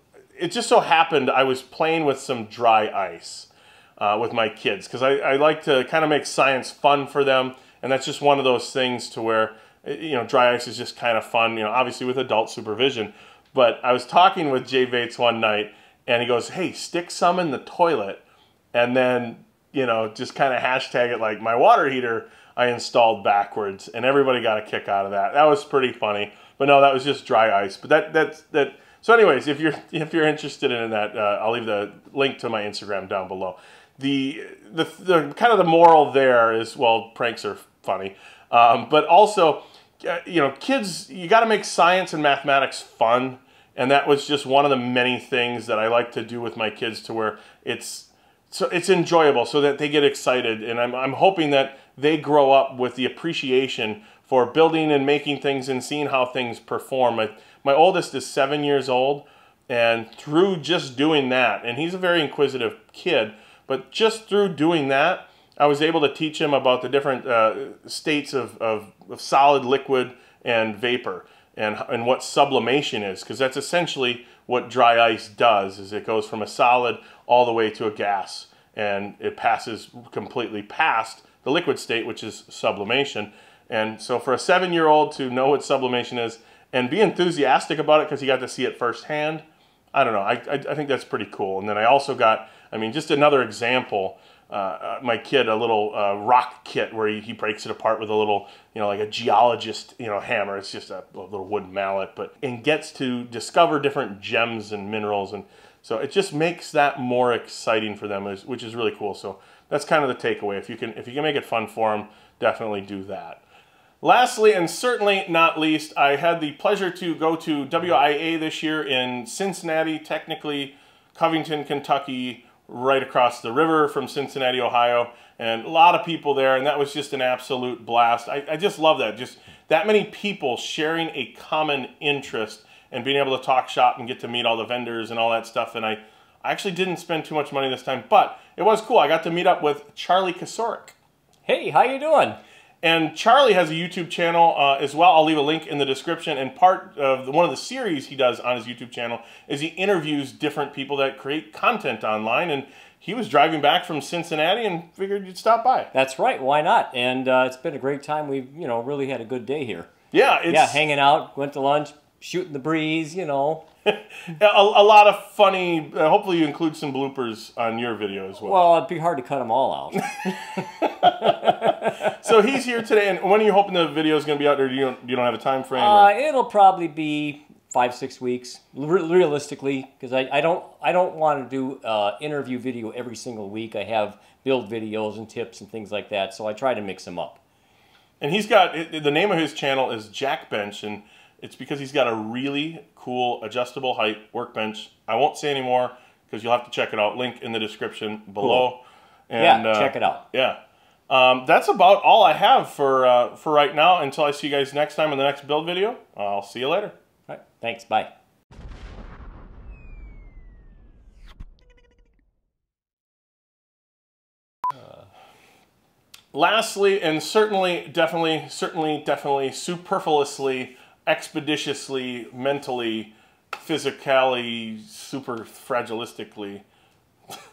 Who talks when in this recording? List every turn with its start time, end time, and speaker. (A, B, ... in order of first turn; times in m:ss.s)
0:00.4-0:18.2 A
0:18.7-1:53.4 A
1:54.0-2:21.0 A
2:21.4-2:22.4 B
2:22.8-2:35.9 A
2:35.9-2:39.9 B
2:40.1-2:40.8 A
2:40.5-2:43.6 B
2:43.9-2:48.6 A
2:48.4-2:52.0 B
2:50.7-2:56.1 A
2:55.8-3:07.4 B
3:08.2-3:20.6 A
3:18.4-3:18.7 B
3:19.4-3:20.2 B
3:21.1-3:27.0 A
3:27.3-3:28.1 B
3:36.3-3:46.6 A